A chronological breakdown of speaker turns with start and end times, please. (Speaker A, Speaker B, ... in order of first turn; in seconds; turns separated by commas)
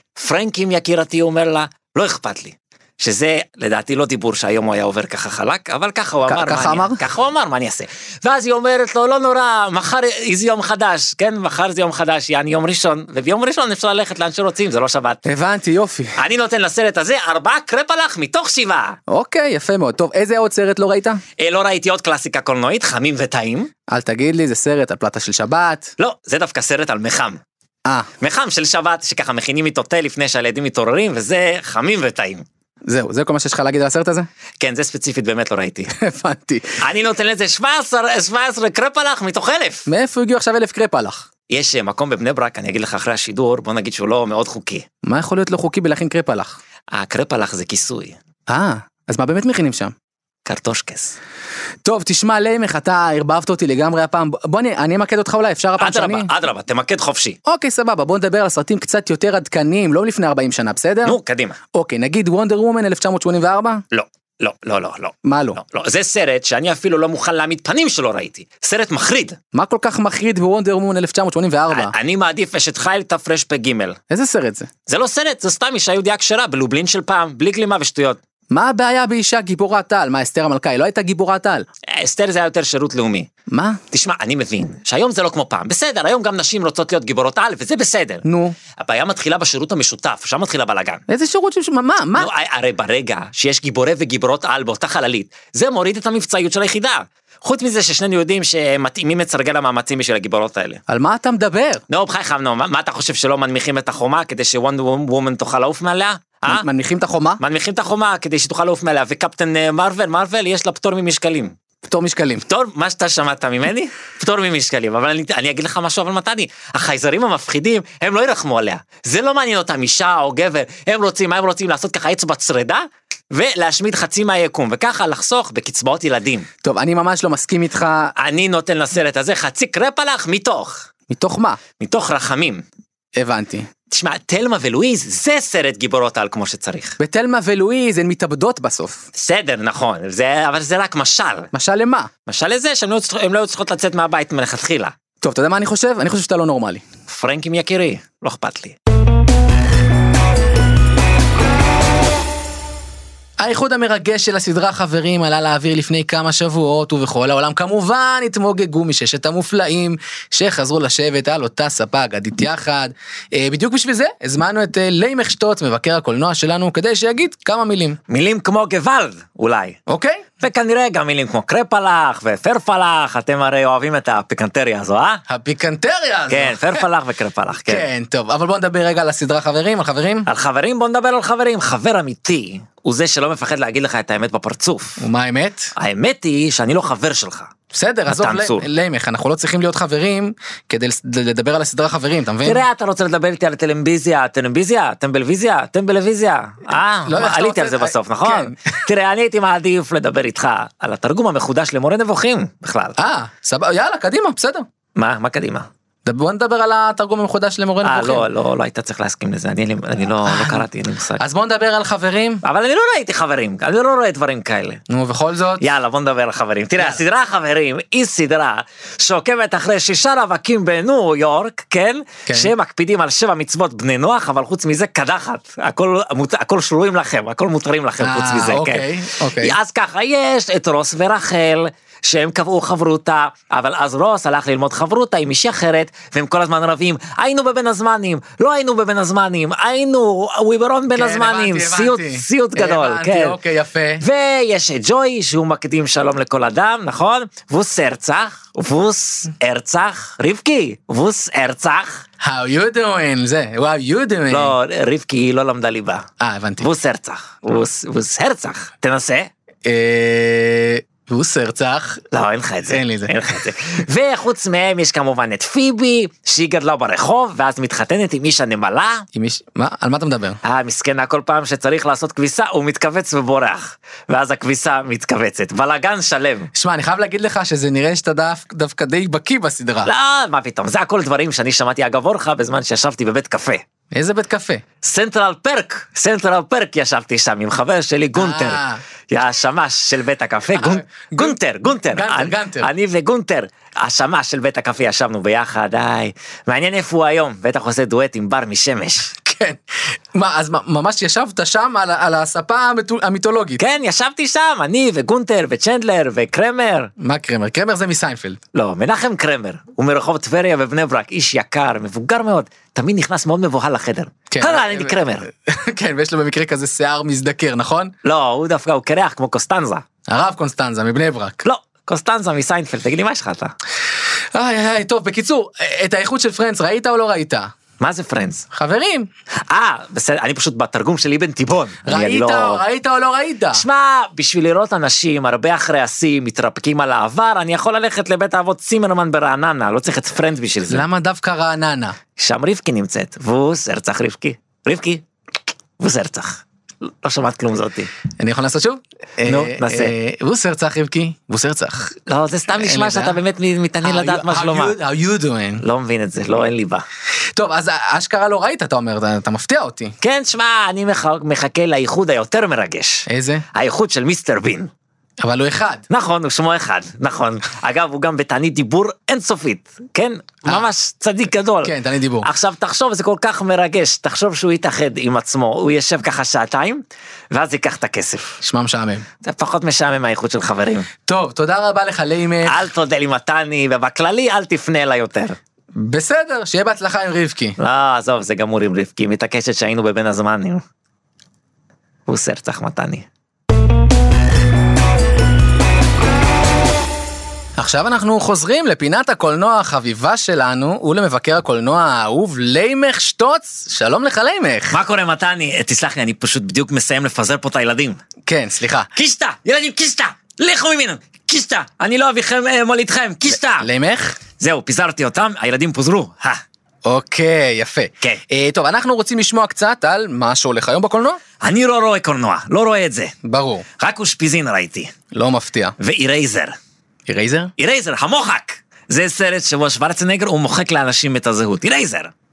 Speaker A: 0.1-15.2, Speaker B: 6.3-7.0, Speaker B: 15.2-16.2, Speaker A: 16.1-19.0, Speaker B: 19.1-21.2, Speaker A: 21.4-23.7, Speaker B: 23.9-25.9, Speaker A: 26.0-27.4, Speaker A: 28.2-32.4, Speaker B: 32.9-34.3, Speaker A: 34.6-35.9, Speaker B: 36.0-36.8, Speaker A: 36.8-39.9, Speaker B: 39.9-41.2, Speaker A: 41.5-44.8, Speaker B: 45.0-46.5, Speaker A: 46.9-48.2, Speaker B: 48.5-49.9, Speaker A: 50.4-51.2, Speaker B: 51.8-56.3, Speaker A: 55.8-57.4, Speaker B: 57.5-61.1, Speaker A: 61.0-61.6, Speaker B: 61.7-63.8, Speaker A: 63.9-69.4, Speaker B: 65.2-65.6, Speaker B: 69.5-71.9, Speaker A: 71.7-74.0, Speaker B: 74.1-74.7, Speaker A: 74.9-78.2, Speaker B: 78.5-81.7, Speaker A: 81.9-83.3, Speaker B: 83.5-83.8, Speaker A: 83.9-88.2, Speaker B: 88.2-88.5, Speaker A: 88.8-91.0, Speaker B: 91.1-92.3, Speaker A: 92.1-100.8, Speaker B: 100.9-101.8, Speaker A: 101.9-106.7, Speaker B: 106.5-107.4, Speaker A: 107.4-111.5, Speaker B: 111.8-112.4, Speaker A: 112.5-126.5, Speaker B: 126.6-128.1, Speaker A: 128.2-130.9, Speaker B: 131.1-131.6, Speaker A: 131.8-132.6, Speaker B: 133.2-133.7, Speaker A: 133.9-137.0, Speaker B: 137.0-139.0, Speaker A: 139.1-141.5, Speaker B: 141.5-142.1, Speaker A: 142.2-144.9, Speaker B: 145.2-146.8, Speaker A: 147.1-148.8, Speaker B: 153.4-168.0, Speaker A: 168.1-169.8, Speaker B: 169.9-170.2, Speaker A: 170.4-175.2, Speaker B: 175.3-176.8, Speaker A: 176.3-177.9, Speaker B: 177.7-180.3, Speaker A: 180.2-185.0, Speaker B: 185.0-185.7, Speaker A: 185.8-187.5, Speaker B: 187.7-192.6, Speaker A: 188.1-188.7, Speaker A: 192.4-202.9, Speaker B: 197.0-198.6, Speaker B: 203.0-204.7, Speaker A: 204.9-205.7, Speaker B: 206.0-208.3, Speaker A: 207.8-211.2, Speaker B: 210.2-210.7, Speaker B: 211.2-212.4, Speaker A: 212.4-214.8, Speaker B: 214.9-215.7, Speaker A: 215.6-243.4, Speaker B: 222.3-222.5, Speaker B: 228.0-229.6, Speaker B: 240.9-244.0, Speaker A: 244.0-252.0, Speaker B: 252.2-254.6, Speaker A: 254.3-256.1, Speaker B: 256.2-256.7, Speaker A: 256.6-259.3, Speaker B: 259.6-262.0, Speaker A: 262.1-269.1, Speaker B: 262.7-263.2, Speaker B: 269.1-270.4, Speaker A: 270.4-276.5, Speaker B: 276.5-279.9, Speaker A: 279.8-283.6, Speaker B: 283.9-284.6, Speaker A: 284.8-299.1, Speaker B: 288.1-288.8, Speaker B: 290.5-291.4, Speaker B: 291.9-292.7, Speaker B: 299.2-299.6, Speaker B: 300.1-303.6, Speaker A: 303.6-306.9, Speaker B: 307.0-308.4, Speaker A: 308.5-315.3, Speaker B: 314.3-317.9, Speaker A: 318.0-319.8, Speaker B: 320.1-321.4, Speaker A: 321.4-323.5, Speaker B: 324.3-327.5, Speaker A: 327.8-328.4, Speaker B: 328.5-329.1, Speaker A: 329.5-332.6, Speaker B: 331.8-333.6, Speaker A: 333.5-340.9, Speaker B: 340.7-341.9, Speaker A: 342.2-345.0, Speaker A: 345.8-347.9, Speaker B: 348.2-351.9, Speaker A: 349.2-349.9, Speaker A: 352.1-354.8, Speaker B: 352.5-353.2, Speaker B: 353.8-355.6, Speaker A: 355.6-356.8, Speaker B: 357.3-359.9, Speaker A: 360.0-364.7, Speaker B: 363.1-363.4, Speaker B: 365.2-365.8, Speaker A: 365.9-378.4, Speaker B: 371.6-372.3, Speaker B: 378.4-379.0, Speaker A: 379.2-380.9, Speaker B: 381.1-382.7, Speaker A: 382.4-385.4, Speaker B: 385.7-387.6, Speaker A: 387.6-390.6, Speaker A: 392.1-393.1, Speaker B: 397.6-404.8, Speaker A: 404.7-408.0, Speaker B: 408.2-408.9, Speaker A: 408.9-413.7, Speaker B: 413.3-414.1, Speaker A: 414.4-416.4, Speaker B: 416.8-421.2, Speaker A: 421.4-423.1, Speaker B: 423.2-423.6, Speaker A: 423.8-424.9, Speaker B: 425.1-425.7, Speaker A: 425.8-426.5, Speaker B: 427.1-427.5, Speaker A: 427.6-432.1